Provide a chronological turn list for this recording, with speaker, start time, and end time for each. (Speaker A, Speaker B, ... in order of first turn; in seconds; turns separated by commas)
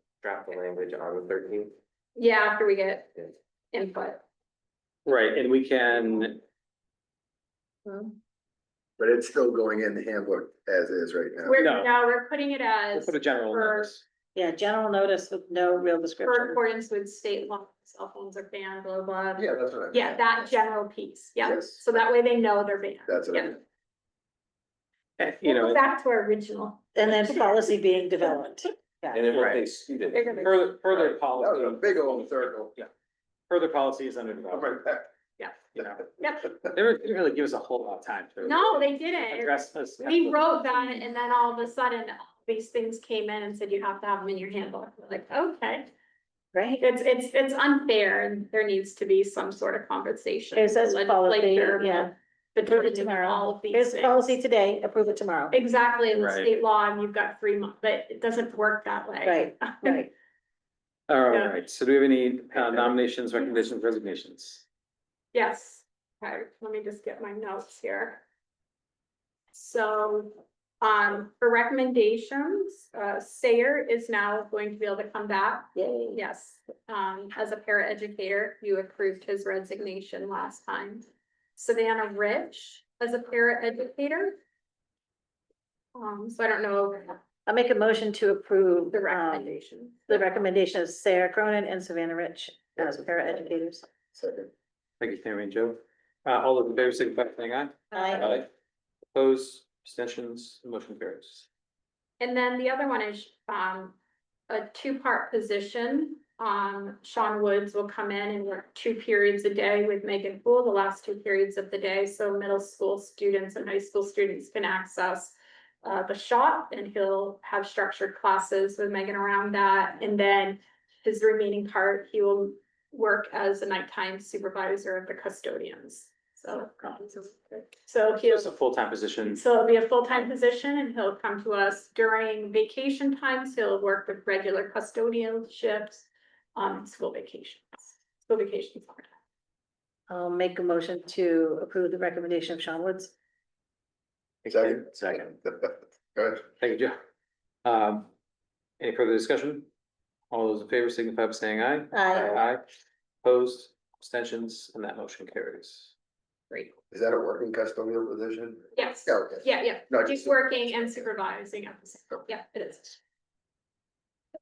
Speaker A: 0.2-1.8, Speaker B: 2.2-3.1, Speaker B: 3.7-4.2, Speaker C: 5.0-6.4, Speaker D: 7.9-8.1, Speaker E: 9.0-11.6, Speaker B: 11.4-13.9, Speaker C: 11.6-11.9, Speaker C: 12.9-14.0, Speaker D: 14.3-16.6, Speaker B: 16.2-23.6, Speaker E: 19.4-20.4, Speaker E: 21.4-21.8, Speaker E: 23.1-23.6, Speaker C: 25.2-25.8, Speaker B: 25.4-27.6, Speaker D: 26.9-29.3, Speaker A: 29.1-30.5, Speaker C: 29.3-29.7, Speaker C: 30.3-32.9, Speaker E: 31.2-32.8, Speaker C: 33.5-34.8, Speaker E: 34.5-35.1, Speaker C: 35.7-36.1, Speaker B: 36.2-36.5, Speaker C: 36.7-40.6, Speaker B: 38.4-45.9, Speaker D: 46.5-46.8, Speaker B: 46.8-54.4, Speaker D: 50.5-55.6, Speaker B: 55.5-60.0, Speaker C: 56.1-56.5, Speaker D: 59.2-60.1, Speaker C: 61.1-64.7, Speaker B: 65.3-68.2, Speaker B: 69.5-84.4, Speaker D: 75.8-76.2, Speaker B: 86.0-87.2, Speaker D: 87.5-93.8, Speaker B: 88.9-90.2, Speaker E: 94.2-94.5, Speaker C: 95.0-98.5, Speaker D: 97.9-98.3, Speaker C: 99.1-101.5, Speaker B: 102.2-104.0, Speaker B: 104.5-128.5, Speaker C: 128.3-129.4, Speaker B: 129.3-139.1, Speaker D: 140.1-143.1, Speaker C: 144.4-145.3, Speaker E: 144.5-146.5, Speaker C: 146.6-147.0, Speaker C: 147.7-148.1, Speaker C: 148.8-149.7, Speaker C: 150.3-152.6, Speaker D: 151.9-152.4, Speaker C: 153.2-155.9, Speaker E: 156.9-160.3, Speaker B: 158.8-163.0